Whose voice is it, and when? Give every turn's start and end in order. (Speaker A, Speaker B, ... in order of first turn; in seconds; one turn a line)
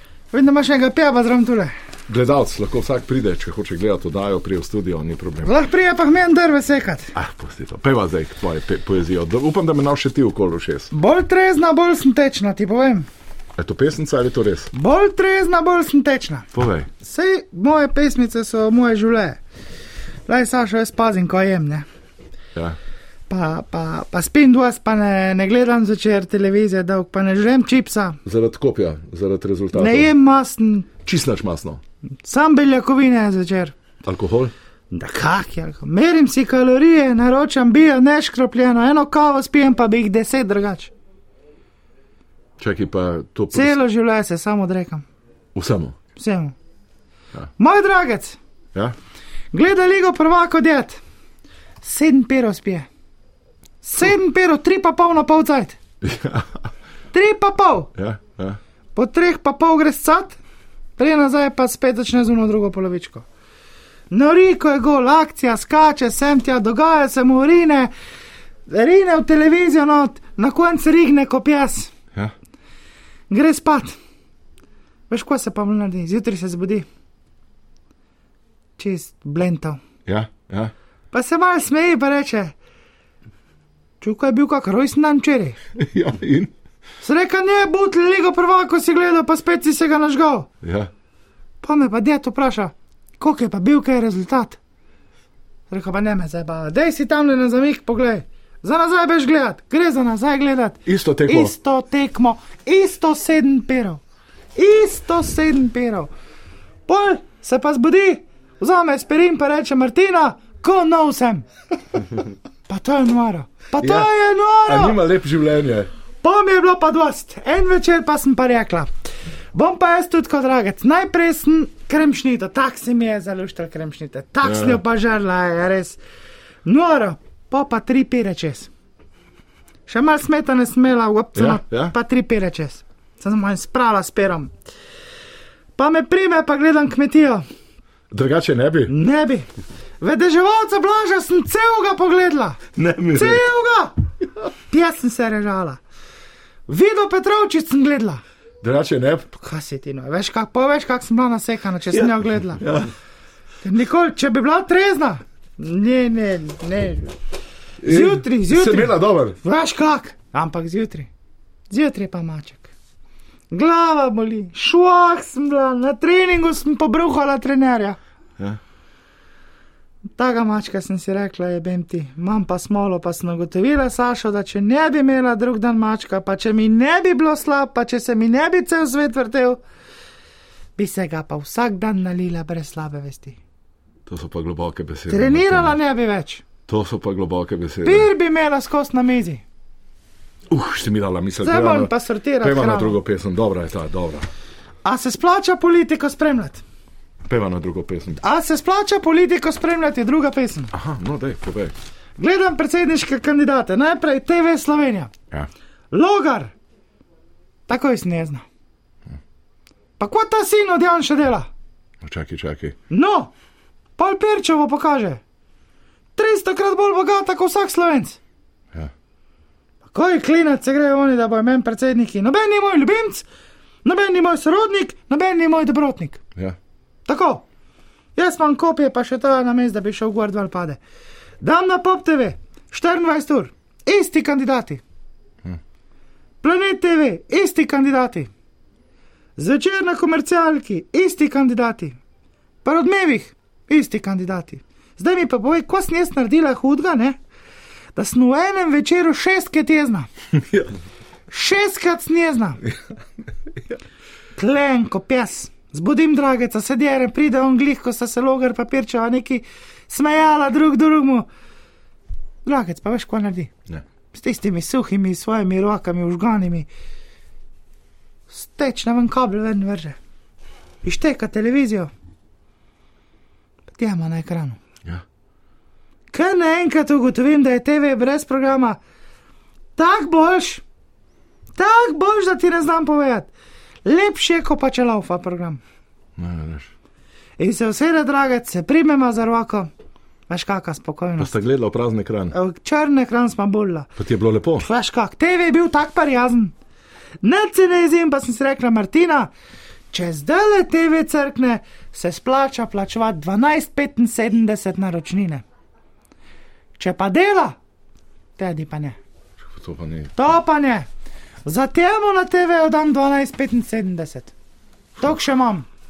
Speaker A: 0.3-1.7
Speaker B: 2.1-5.5
Speaker A: 5.4-7.1
Speaker B: 7.1-10.9
Speaker A: 10.9-13.1
Speaker B: 13.6-14.7
Speaker A: 14.7-16.5
Speaker B: 16.5-16.9
Speaker A: 17.0-19.4
Speaker A: 20.3-21.8
Speaker A: 23.3-28.2
Speaker B: 28.2-30.1
Speaker A: 29.7-30.9
Speaker B: 31.0-31.8
Speaker A: 32.2-33.8
Speaker B: 34.0-34.5
Speaker A: 34.9-40.9
Speaker B: 42.6-43.8
Speaker A: 43.5-45.0
Speaker B: 45.5-46.0
Speaker A: 46.2-46.5
Speaker A: 47.6-48.4
Speaker A: 49.5-51.0
Speaker A: 51.8-52.9
Speaker A: 53.8-55.8
Speaker B: 56.0-56.7
Speaker A: 57.1-57.9
Speaker B: 58.0-58.6
Speaker A: 59.0-60.4
Speaker A: 61.0-63.2
Speaker A: 64.1-67.9
Speaker A: 68.7-71.9
Speaker A: 73.3-74.0
Speaker A: 75.1-76.9
Speaker A: 78.8-79.8
Speaker B: 80.0-80.7
Speaker A: 81.1-82.5
Speaker A: 84.0-85.6
Speaker B: 85.8-86.5
Speaker A: 87.0-90.5
Speaker B: 90.6-90.9
Speaker A: 91.6-94.6
Speaker A: 95.7-104.0
Speaker B: 100.9-101.5
Speaker A: 104.5-106.1
Speaker A: 106.9-111.5
Speaker A: 112.7-115.0
Speaker B: 113.8-114.1
Speaker B: 114.6-115.9
Speaker A: 116.2-118.9
Speaker A: 119.5-126.0
Speaker B: 124.4-124.8
Speaker A: 126.6-128.7
Speaker A: 129.9-134.5
Speaker B: 131.4-131.9
Speaker A: 135.8-137.4
Speaker B: 138.1-138.9
Speaker A: 138.9-139.5
Speaker A: 140.0-142.6
Speaker B: 142.8-143.4
Speaker A: 143.1-143.9
Speaker A: 144.7-145.8
Speaker A: 146.7-148.2
Speaker B: 148.6-149.3
Speaker A: 149.4-152.6
Speaker B: 151.9-152.9
Speaker A: 153.6-157.1
Speaker B: 157.8-159.4
Speaker A: 157.8-161.1
Speaker A: 161.7-162.7
Speaker A: 163.5-168.0
Speaker A: 170.2-179.6
Speaker A: 180.8-183.4
Speaker B: 184.1-185.8
Speaker A: 185.1-186.4
Speaker B: 186.7-188.1
Speaker A: 187.8-189.4
Speaker B: 190.5-194.3
Speaker A: 191.4-193.0
Speaker A: 194.8-196.6
Speaker B: 197.3-198.2
Speaker A: 198.2-200.7
Speaker B: 200.7-201.7
Speaker A: 202.2-205.1
Speaker A: 205.9-206.5
Speaker A: 207.7-208.4
Speaker A: 210.0-211.5
Speaker B: 212.0-212.8
Speaker A: 212.9-213.3
Speaker A: 214.0-215.2
Speaker A: 216.2-218.2
Speaker A: 219.9-223.2
Speaker A: 223.8-226.2
Speaker A: 227.1-227.4
Speaker A: 228.2-230.8
Speaker A: 231.4-234.8
Speaker A: 236.4-238.3
Speaker A: 239.4-242.0
Speaker A: 242.6-247.2
Speaker A: 247.9-250.1
Speaker A: 251.3-252.6
Speaker A: 254.4-261.3
Speaker A: 262.4-263.5
Speaker A: 264.1-266.7
Speaker A: 268.3-270.0
Speaker A: 270.8-271.9
Speaker A: 273.7-274.6
Speaker A: 276.1-278.8
Speaker A: 279.8-280.6
Speaker A: 281.6-283.3
Speaker A: 283.9-285.6
Speaker B: 286.2-286.7
Speaker A: 287.4-289.7
Speaker A: 290.3-291.3
Speaker B: 291.2-292.3
Speaker A: 292.3-293.9
Speaker B: 294.0-294.7
Speaker A: 294.6-296.5
Speaker A: 297.2-299.3
Speaker A: 299.9-305.4
Speaker A: 306.8-307.6
Speaker A: 308.4-309.0
Speaker B: 309.4-310.4
Speaker A: 310.2-310.9
Speaker A: 311.4-314.3
Speaker A: 315.0-315.7